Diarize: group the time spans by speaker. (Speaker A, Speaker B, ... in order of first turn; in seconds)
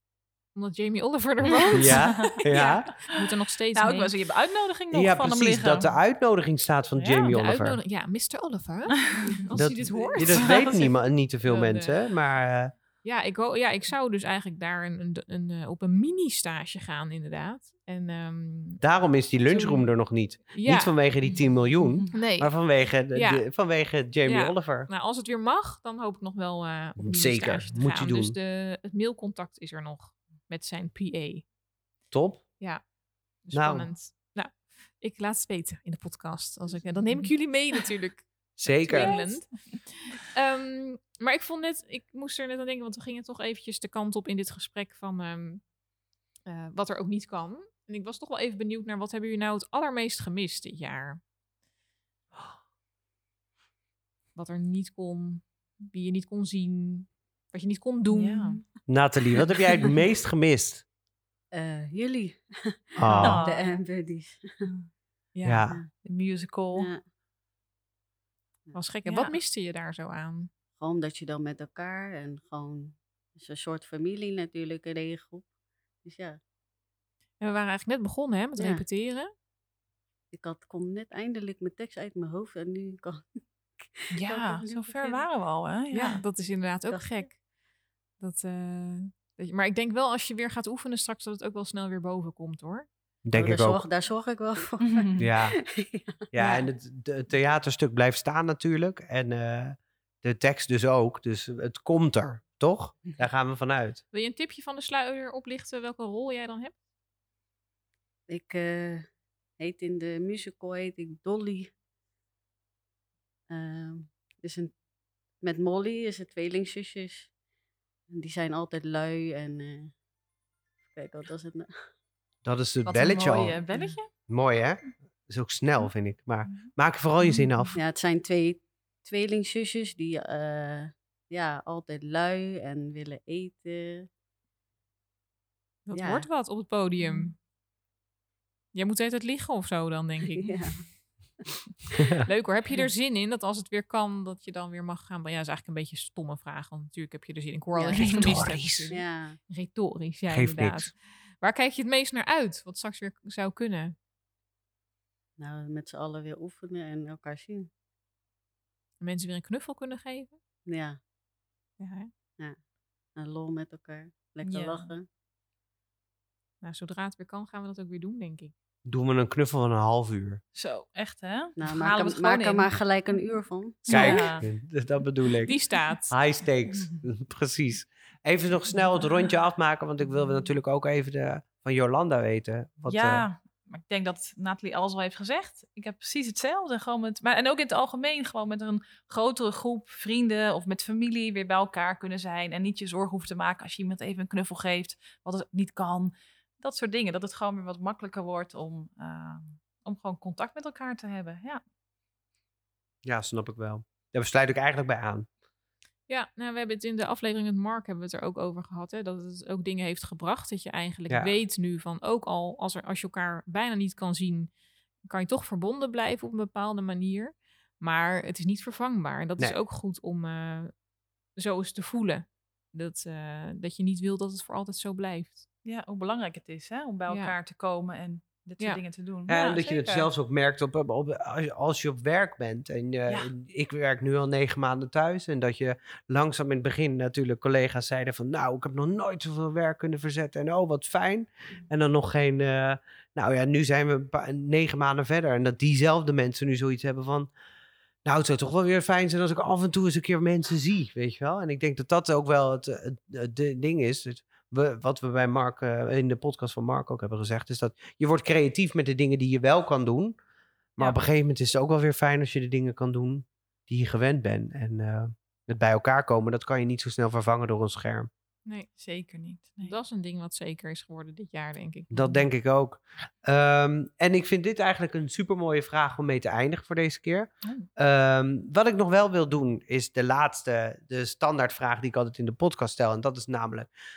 Speaker A: 0.6-4.1, 7.2-10.6, 11.4-12.0, 13.0-18.8, 19.4-19.9, 20.5-20.9, 22.1-22.5, 23.1-23.5, 24.2-31.4, 33.4-45.6, 46.5-51.2, 54.3-58.6, 65.3-65.6, 68.7-70.5, 77.4-79.3, 85.9-87.4, 88.2-92.9, 96.4-96.7, 104.1-106.7, 135.8-137.3, 138.7-140.6, 142.2-153.9, 159.0-160.3, 161.8-162.1, 166.6-168.5, 175.4-176.1, 206.1-214.5, 215.0-220.7, 221.3-225.4, 269.6-272.2
Speaker B: 1.4-3.0, 3.7-6.0, 6.9-7.3, 9.1-9.4, 10.1-10.9, 21.3-22.1, 38.9-39.4, 58.1-58.6, 63.2-63.8, 66.0-66.9, 69.0-69.3, 84.1-86.2, 94.8-95.3, 122.8-124.1, 127.2-127.7, 164.4-164.9, 170.5-172.7, 173.9-174.5, 182.9-201.6, 225.6-230.1, 268.8-269.7
Speaker C: 1.7-2.9, 4.9-7.8, 9.5-12.7, 18.8-24.9, 27.0-28.4, 32.1-32.4, 33.5-33.9, 38.6-39.1, 58.9-60.8, 63.0-63.4, 65.4-65.8, 93.2-93.8, 95.2-95.6, 96.3-104.0, 122.4-123.6, 124.3-127.8, 142.0-142.2, 148.0-148.9, 150.3-150.9, 168.8-170.4, 173.9-175.6, 176.1-183.2, 203.0-205.3, 229.3-247.3, 248.0-260.2, 260.8-268.1, 271.9-283.7
Speaker D: 61.5-64.6, 66.7-67.0, 70.8-75.5, 76.0-76.4, 78.6-78.8, 80.3-85.2, 93.3-96.2, 108.3-109.1, 109.6-111.7, 113.5-114.7, 115.4-117.3, 118.1-119.9, 120.9-121.7, 127.7-134.1, 135.9-136.2, 140.4-140.8, 147.7-148.2, 148.9-149.4, 155.4-157.7, 160.7-161.0, 163.2-165.1, 171.6-174.4